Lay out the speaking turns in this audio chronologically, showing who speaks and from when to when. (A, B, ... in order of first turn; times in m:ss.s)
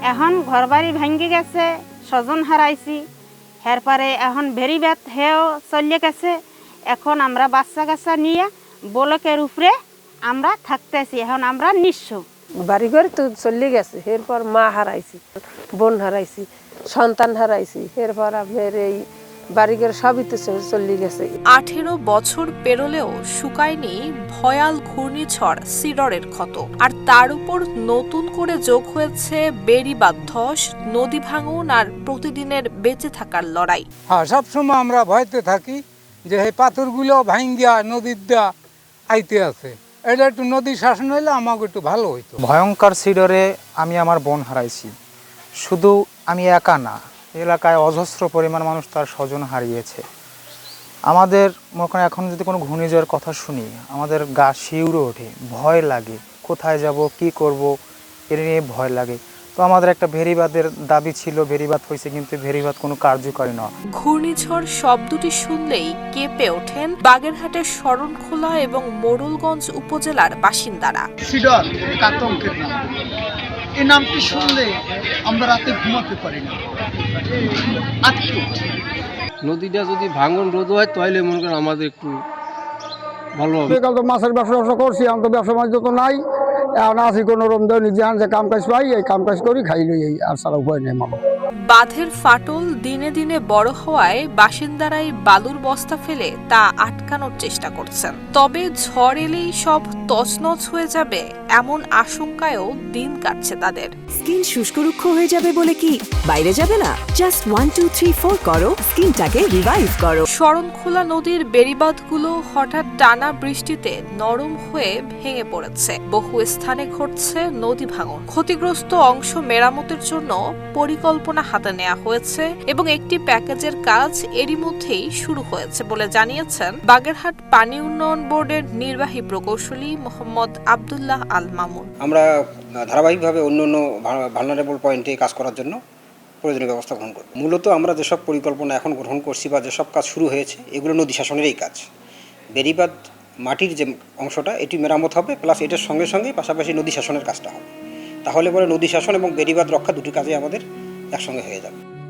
0:00.1-0:03.0 A
0:03.7-0:06.4 A
0:06.9-0:09.7 A
0:10.3-0:12.2 A
0:12.7-0:15.2 B
0:15.8-0:19.0 B
0:19.6-0:21.3 B
0:21.5-0:33.8 C
0:34.1-0:38.5 D
0:39.1-0:42.4 D
0:42.4-0:44.9 E
0:45.6-0:50.0 E
0:51.1-0:57.7 E
0:58.3-1:03.7 E
1:04.0-1:11.0 C
1:11.3-1:12.8 F
1:13.8-1:14.6 F
1:15.3-1:16.5 F
1:18.1-1:18.4 F
1:19.4-1:22.2 G
1:23.4-1:23.8 G
1:23.7-1:26.2 H
1:26.8-1:31.2 H
1:31.7-1:43.9 C
1:44.2-1:50.2 I
1:50.4-2:11.9 C
2:12.8-2:15.8 J
2:16.4-2:21.8 J
2:22.6-2:27.7 J
2:28.3-2:31.8 J